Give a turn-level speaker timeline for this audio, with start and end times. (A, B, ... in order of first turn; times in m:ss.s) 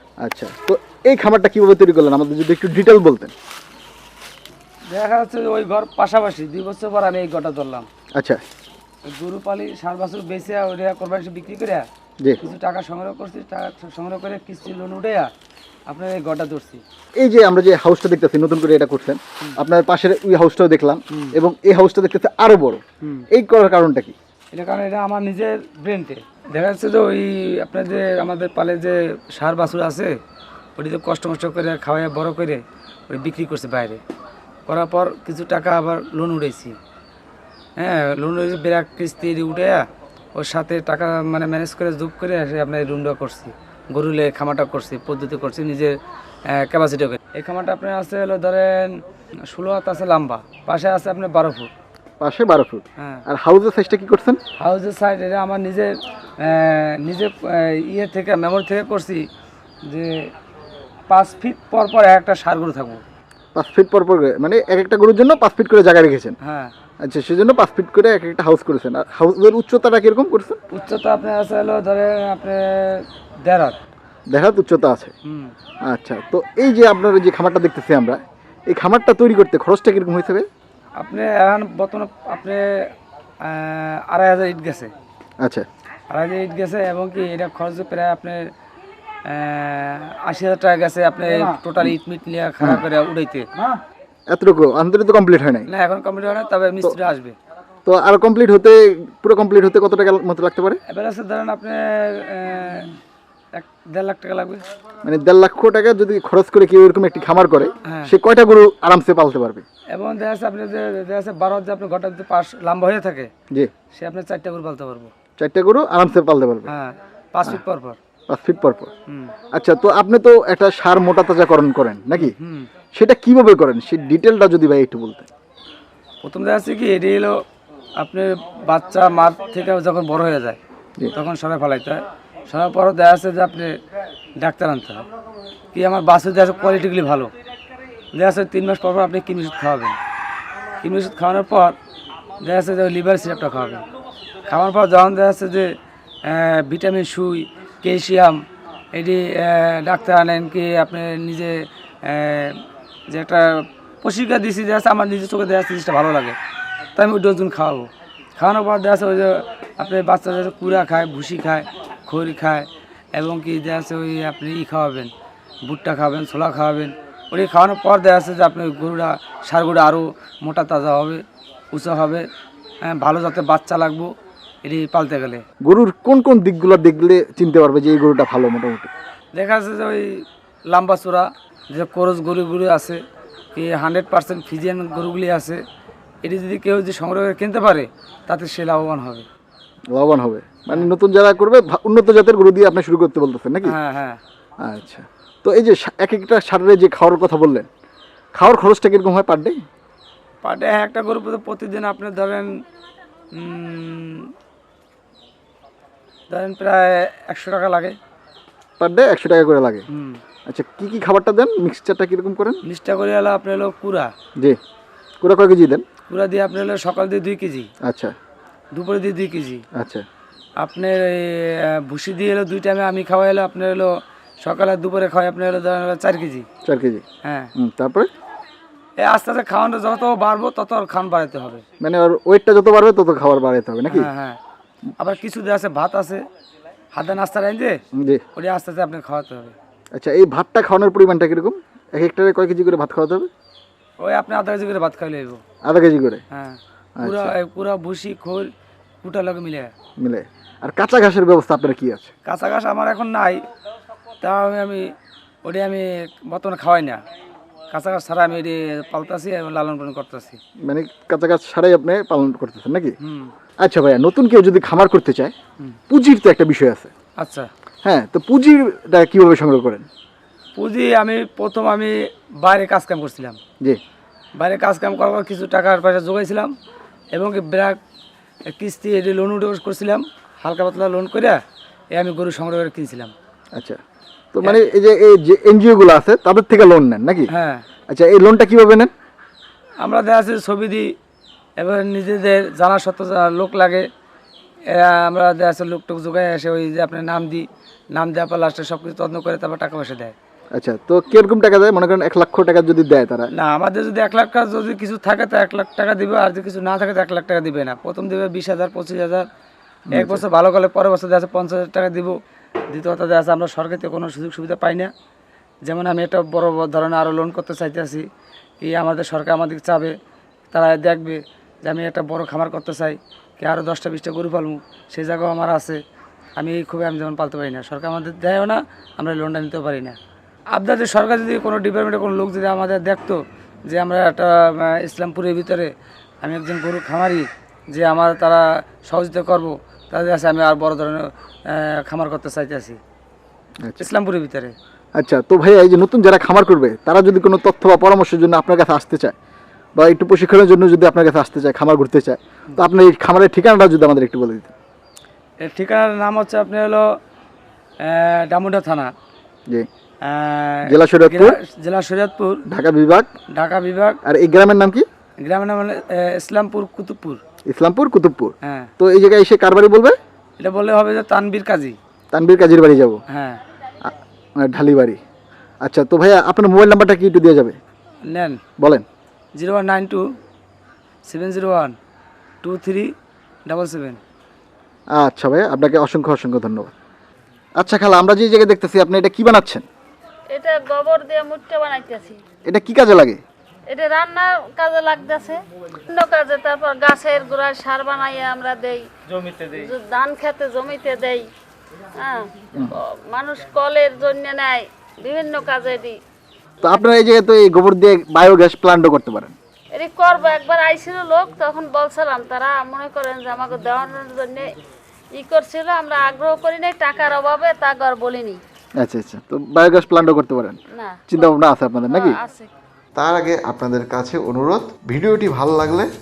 0:00.2-0:03.3 A
0:04.9-0:07.9 B
0:08.2-0:08.4 A
0:09.0-0:11.8 B
0:12.4-0:15.3 B
0:15.9-0:16.8 B
0:17.2-0:24.1 A
0:21.1-0:21.4 B
0:24.5-0:30.2 B
0:30.8-0:34.0 B
0:34.6-0:36.8 B
0:37.8-0:46.0 B
0:46.5-0:51.7 B
0:52.2-0:54.4 A
0:53.0-0:53.2 B
0:54.6-0:59.3 B
0:59.8-1:00.3 B
1:01.1-1:03.0 B
1:03.5-1:06.4 A
1:06.4-1:06.7 B
1:07.0-1:10.6 A
1:10.7-1:13.8 B
1:14.3-1:15.1 A
1:15.2-1:15.5 B
1:15.8-1:20.5 A
1:21.0-1:24.9 B
1:26.1-1:28.5 B
1:29.2-1:33.5 B
1:34.3-1:35.7 A
1:35.6-1:37.4 B
1:37.8-1:40.8 A
1:40.9-1:42.9 B
1:43.5-1:44.7 B
1:45.0-1:49.6 A
1:47.8-1:48.1 B
1:49.9-1:53.3 B
1:53.9-1:55.1 B
1:55.4-1:56.7 A
1:56.6-1:58.0 B
1:58.3-1:58.9 A
1:59.1-1:59.3 B
1:59.5-2:02.4 A
2:02.2-2:02.7 B
2:02.9-2:05.3 A
2:06.2-2:07.4 B
2:08.0-2:10.6 B
2:11.1-2:13.7 B
2:14.4-2:15.0 B
2:15.7-2:17.3 B
2:18.1-2:20.0 B
2:20.8-2:21.8 B
2:22.4-2:23.8 B
2:24.4-2:36.4 B
2:36.9-2:45.1 B
2:45.6-2:52.3 B
2:52.8-2:54.1 B
2:54.6-2:55.4 B
2:55.6-2:58.9 A
2:59.3-3:03.0 B
3:03.5-3:05.6 B
3:06.2-3:09.2 B
3:09.9-3:13.8 A
3:10.7-3:10.9 B
3:13.6-3:14.2 B
3:14.6-3:17.7 A
3:18.3-3:19.6 A
3:20.4-3:22.5 B
3:23.3-3:24.3 B
3:26.3-3:28.0 B
3:28.8-3:29.8 A
3:29.9-3:30.2 B
3:30.5-3:32.6 A
3:32.6-3:34.1 B
3:35.2-3:35.8 A
3:36.1-3:37.7 B
3:37.8-3:38.1 A
3:38.7-3:39.6 B
3:39.8-3:40.0 A
3:40.6-3:46.5 B
3:46.6-3:47.0 A
3:47.2-3:47.5 B
3:47.6-3:48.1 A
3:49.0-3:51.6 B
3:51.8-3:54.1 A
3:53.9-3:54.4 B
3:55.0-3:56.2 B
3:56.9-3:57.8 B
3:58.0-3:58.2 A
3:58.3-3:59.5 B
3:59.9-4:03.3 A
4:04.0-4:05.4 B
4:05.6-4:06.2 A
4:06.3-4:08.5 B
4:07.0-4:07.4 A
4:09.0-4:09.7 B
4:10.0-4:12.1 A
4:12.2-4:13.4 B
4:14.2-4:14.9 B
4:15.4-4:17.0 B
4:17.7-4:20.4 B
4:20.6-4:23.0 A
4:23.0-4:23.3 B
4:23.6-4:25.3 A
4:25.9-4:26.9 A
4:27.2-4:27.5 B
4:27.8-4:29.9 A
4:30.5-4:33.4 B
4:34.4-4:36.5 B
4:37.1-4:37.8 B
4:38.4-4:41.4 B
4:41.9-4:43.1 B
4:43.5-4:43.8 A
4:44.3-4:47.3 A
4:44.4-4:44.7 B
4:47.3-4:47.6 B
4:47.9-4:48.9 A
4:49.8-4:50.9 B
4:51.6-4:53.9 B
4:54.7-5:00.1 B
5:00.5-5:03.3 A
5:03.3-5:09.3 B
5:09.9-5:10.2 A
5:09.9-5:12.1 B
5:12.7-5:14.9 B
5:15.6-5:18.0 B
5:18.6-5:19.9 B
5:20.5-5:25.8 B
5:26.4-5:30.0 B
5:30.5-5:42.8 B
5:43.6-5:43.9 A
5:43.8-5:44.5 B
5:45.0-5:49.1 A
5:49.8-5:54.5 A
5:55.4-5:56.9 B
5:57.8-5:58.9 B
6:00.0-6:02.4 B
6:00.6-6:01.4 A
6:02.5-6:03.1 A
6:03.3-6:04.0 B
6:04.0-6:04.8 A
6:05.2-6:07.2 B
6:07.5-6:10.0 A
6:08.4-6:08.7 B
6:10.4-6:11.8 B
6:12.1-6:13.0 A
6:13.1-6:13.4 B
6:13.8-6:15.0 A
6:15.6-6:17.6 A
6:18.0-6:18.4 B
6:18.6-6:18.8 A
6:19.3-6:20.0 B
6:21.0-6:21.8 B
6:22.4-6:22.9 B
6:23.4-6:24.0 B
6:24.9-6:26.7 A
6:27.6-6:29.6 A
6:30.3-6:32.2 C
6:32.4-6:33.2 A
6:33.7-6:38.9 C
6:39.1-6:39.7 B
6:39.5-6:41.3 C
6:41.9-6:46.0 C
6:46.6-6:49.3 A
6:49.7-6:54.6 C
6:55.1-6:58.4 C
6:58.8-7:02.2 A
7:00.7-7:01.2 C
7:01.9-7:02.5 C
7:02.9-7:05.9 D